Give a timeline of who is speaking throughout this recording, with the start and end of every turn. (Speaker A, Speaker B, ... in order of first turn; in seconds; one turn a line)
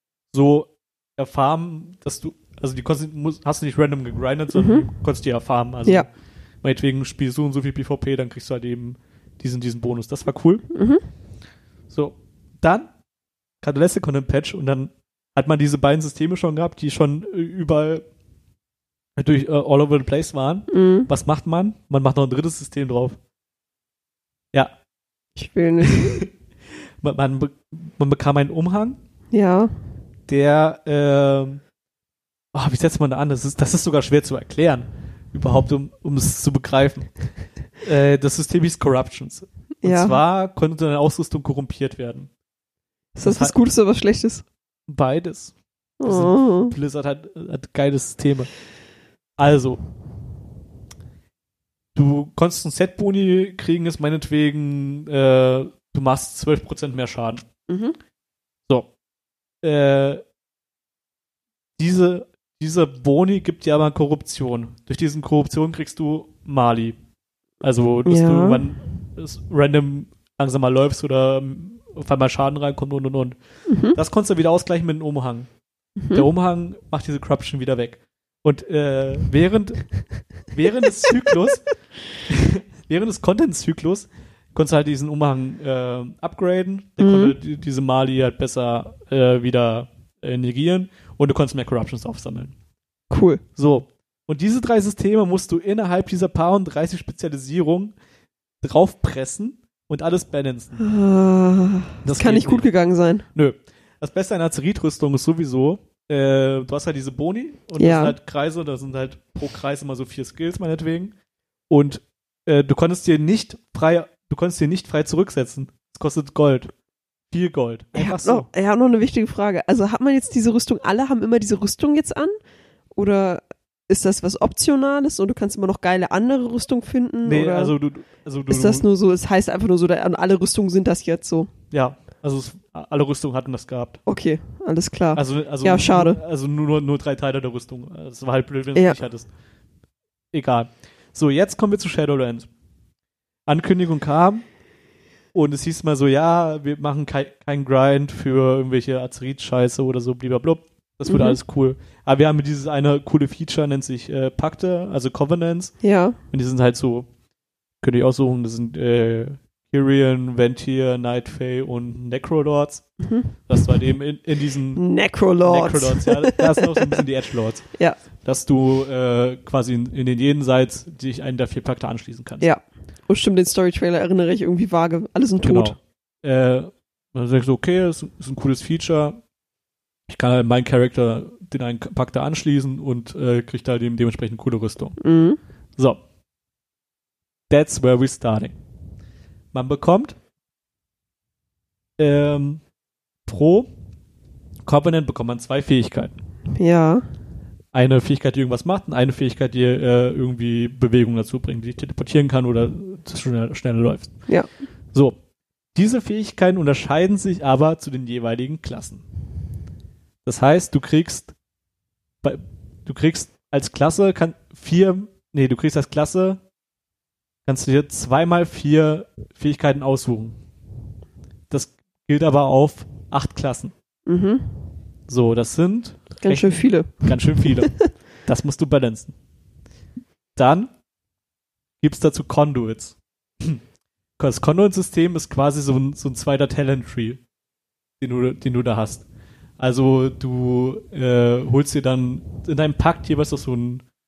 Speaker A: 0.3-6.1
Speaker B: 4.5-4.9
Speaker A: 6.6-10.7
Speaker B: 10.7-11.1
Speaker A: 11.9-12.9
Speaker A: 13.6-18.0
Speaker A: 19.1-23.2
Speaker B: 20.7-21.1
Speaker B: 25.4-26.2
Speaker A: 25.8-29.0
Speaker B: 29.3-29.7
Speaker A: 30.3-31.6
Speaker A: 32.5-42.3
Speaker B: 39.8-40.1
Speaker B: 43.1-44.4
Speaker A: 43.2-43.5
Speaker A: 44.9-48.5
Speaker B: 46.0-46.7
Speaker A: 49.4-49.8
Speaker A: 51.9-57.4
Speaker B: 57.7-58.0
Speaker A: 59.6-60.2
Speaker A: 61.8-67.0
Speaker A: 67.6-75.5
Speaker B: 68.0-68.6
Speaker B: 73.7-74.0
Speaker B: 76.0-76.2
Speaker A: 76.1-92.5
Speaker B: 87.0-87.3
Speaker B: 93.1-93.4
Speaker A: 93.6-97.9
Speaker A: 98.6-100.8
Speaker B: 100.8-103.3
Speaker A: 102.0-102.7
Speaker A: 103.3-111.1
Speaker B: 107.8-108.1
Speaker A: 111.7-116.7
Speaker A: 117.3-118.5
Speaker B: 117.9-122.3
Speaker B: 123.0-127.7
Speaker A: 127.2-128.8
Speaker B: 128.5-131.5
Speaker A: 131.7-134.0
Speaker B: 134.1-136.2
Speaker A: 135.1-139.3
Speaker A: 140.3-142.5
Speaker A: 143.4-144.4
Speaker A: 145.3-157.1
Speaker B: 151.1-151.4
Speaker B: 155.8-156.2
Speaker A: 157.8-172.5
Speaker B: 163.0-163.7
Speaker B: 164.7-167.0
Speaker B: 172.4-175.8
Speaker A: 175.4-179.2
Speaker A: 180.1-185.0
Speaker B: 185.0-185.4
Speaker A: 187.5-188.6
Speaker A: 189.5-190.2
Speaker A: 192.0-192.6
Speaker A: 193.3-193.7
Speaker A: 194.6-196.1
Speaker B: 196.5-197.0
Speaker A: 197.7-204.3
Speaker A: 204.9-205.2
Speaker A: 205.7-209.0
Speaker A: 210.2-211.3
Speaker A: 212.2-216.4
Speaker A: 217.4-220.4
Speaker A: 221.5-223.7
Speaker B: 224.1-224.6
Speaker A: 225.1-229.1
Speaker B: 226.2-227.9
Speaker A: 230.3-230.7
Speaker A: 231.8-233.6
Speaker A: 234.2-237.2
Speaker A: 238.0-239.0
Speaker A: 239.6-243.8